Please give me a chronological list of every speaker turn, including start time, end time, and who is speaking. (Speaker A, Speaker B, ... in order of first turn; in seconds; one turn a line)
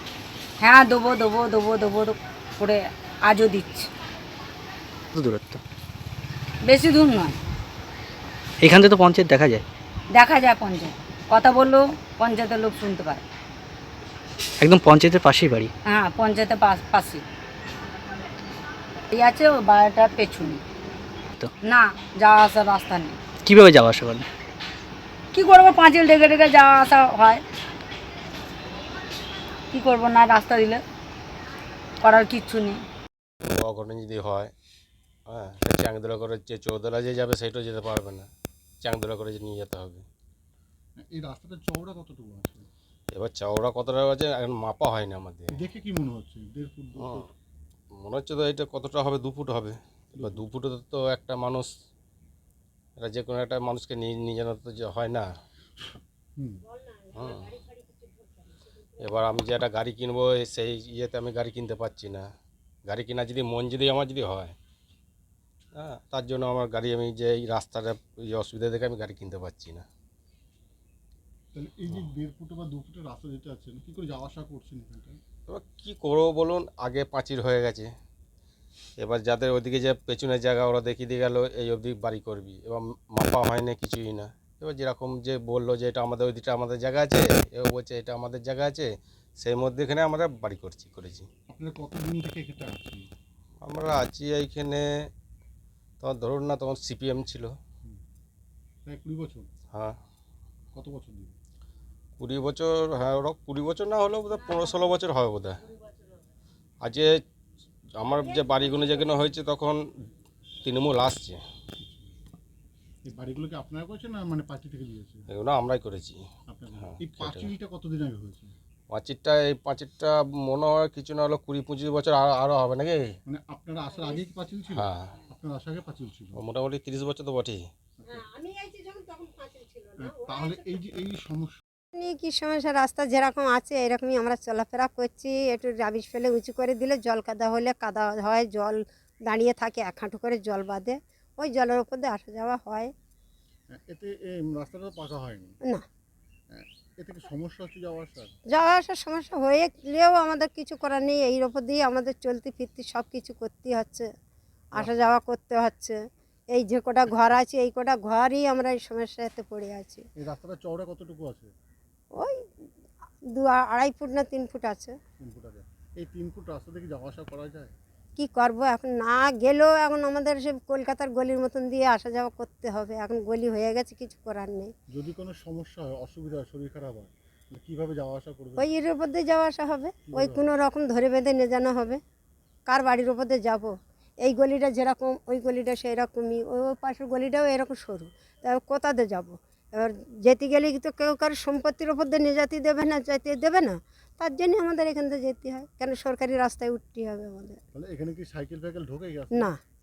Speaker A: 0.6-3.9
Speaker B: 5.1-5.6
Speaker A: 6.7-7.3
Speaker B: 8.6-9.6
Speaker A: 10.1-13.2
Speaker B: 14.6-15.7
Speaker A: 15.9-17.2
Speaker A: 19.1-20.6
Speaker A: 21.6-23.2
Speaker B: 23.4-24.2
Speaker A: 25.3-27.4
Speaker A: 29.7-30.8
Speaker A: 32.0-32.8
Speaker C: 33.5-34.5
Speaker C: 35.3-38.3
Speaker C: 38.8-40.0
Speaker D: 41.0-42.7
Speaker C: 43.1-45.6
Speaker D: 45.5-47.3
Speaker C: 47.0-47.3
Speaker C: 48.0-51.7
Speaker D: 50.1-50.4
Speaker C: 53.0-55.3
Speaker D: 56.4-56.6
Speaker C: 57.1-57.6
Speaker C: 59.0-62.3
Speaker C: 62.9-64.5
Speaker C: 65.7-69.8
Speaker D: 71.5-75.2
Speaker C: 75.5-77.9
Speaker C: 79.0-91.3
Speaker D: 91.5-93.1
Speaker C: 93.6-95.1
Speaker C: 96.0-97.6
Speaker D: 98.8-99.5
Speaker C: 99.7-100.0
Speaker D: 100.7-101.3
Speaker C: 102.2-105.6
Speaker C: 106.8-107.2
Speaker C: 108.0-109.8
Speaker C: 110.6-111.4
Speaker D: 113.0-115.2
Speaker C: 115.3-116.2
Speaker D: 116.5-118.5
Speaker C: 116.8-117.5
Speaker C: 118.9-123.2
Speaker D: 123.2-126.4
Speaker C: 124.7-125.1
Speaker C: 126.3-127.7
Speaker E: 128.1-130.8
Speaker D: 130.0-131.6
Speaker E: 131.9-142.9
Speaker D: 143.7-145.6
Speaker D: 146.5-148.3
Speaker E: 148.5-154.1
Speaker E: 154.7-156.0
Speaker E: 156.5-160.0
Speaker D: 160.2-161.5
Speaker E: 163.3-165.0
Speaker D: 165.2-167.7
Speaker E: 168.2-174.7
Speaker D: 174.9-178.7
Speaker E: 178.6-182.0
Speaker D: 180.1-180.5
Speaker E: 182.7-183.7
Speaker E: 184.2-197.6
Speaker D: 197.7-199.5
Speaker E: 199.3-199.6